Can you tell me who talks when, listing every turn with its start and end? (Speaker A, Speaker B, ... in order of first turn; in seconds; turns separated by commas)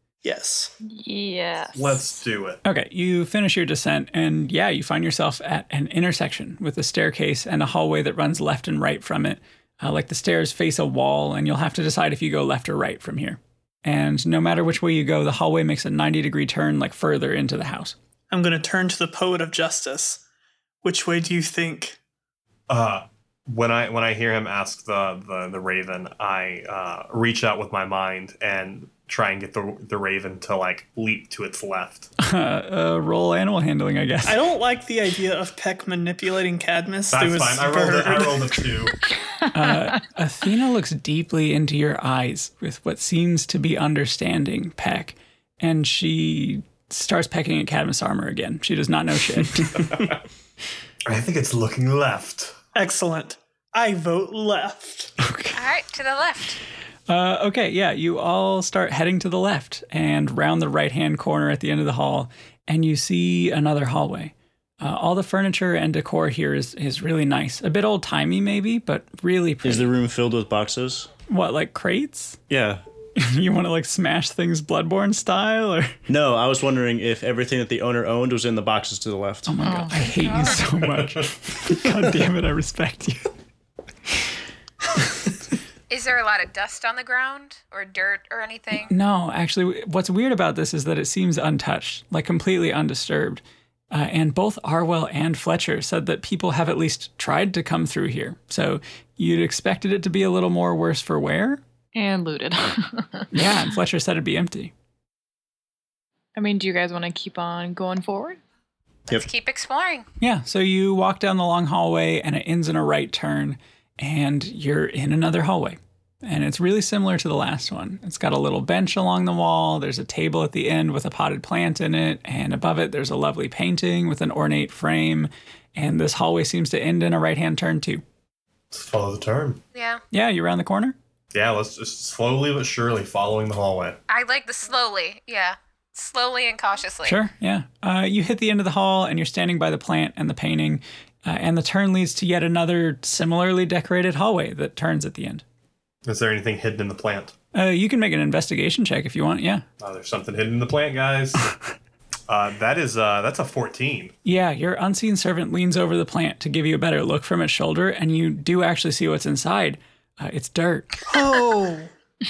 Speaker A: 0.2-0.7, Speaker B: 0.9-2.2, Speaker C: 1.8-2.6, Speaker D: 2.6-17.9, Speaker A: 18.3-20.2, Speaker A: 20.8-22.0, Speaker C: 22.7-32.1, Speaker D: 32.2-34.4, Speaker A: 34.2-38.8, Speaker C: 37.1-39.0, Speaker D: 39.5-49.9, Speaker C: 51.1-52.6, Speaker A: 52.8-55.1, Speaker D: 55.2-55.6, Speaker E: 55.5-56.6, Speaker D: 57.1-69.9, Speaker F: 69.6-71.1, Speaker D: 71.3-72.4, Speaker F: 72.5-72.8, Speaker D: 73.2-76.0, Speaker F: 76.1-79.5, Speaker D: 79.5-83.3, Speaker B: 79.6-80.6, Speaker E: 80.3-80.6, Speaker C: 80.8-81.3, Speaker E: 85.9-88.9, Speaker D: 88.8-101.6, Speaker B: 102.0-103.3, Speaker D: 103.3-104.7, Speaker B: 106.4-108.4, Speaker E: 109.1-110.1, Speaker D: 110.2-128.0, Speaker C: 128.7-129.6, Speaker E: 129.8-130.0, Speaker D: 130.1-131.0, Speaker C: 131.3-134.0, Speaker E: 134.1-137.2, Speaker D: 137.1-145.4, Speaker C: 146.1-147.3, Speaker D: 147.5-149.7, Speaker C: 149.8-151.5, Speaker C: 152.3-154.1, Speaker D: 154.2-161.1, Speaker A: 161.1-161.9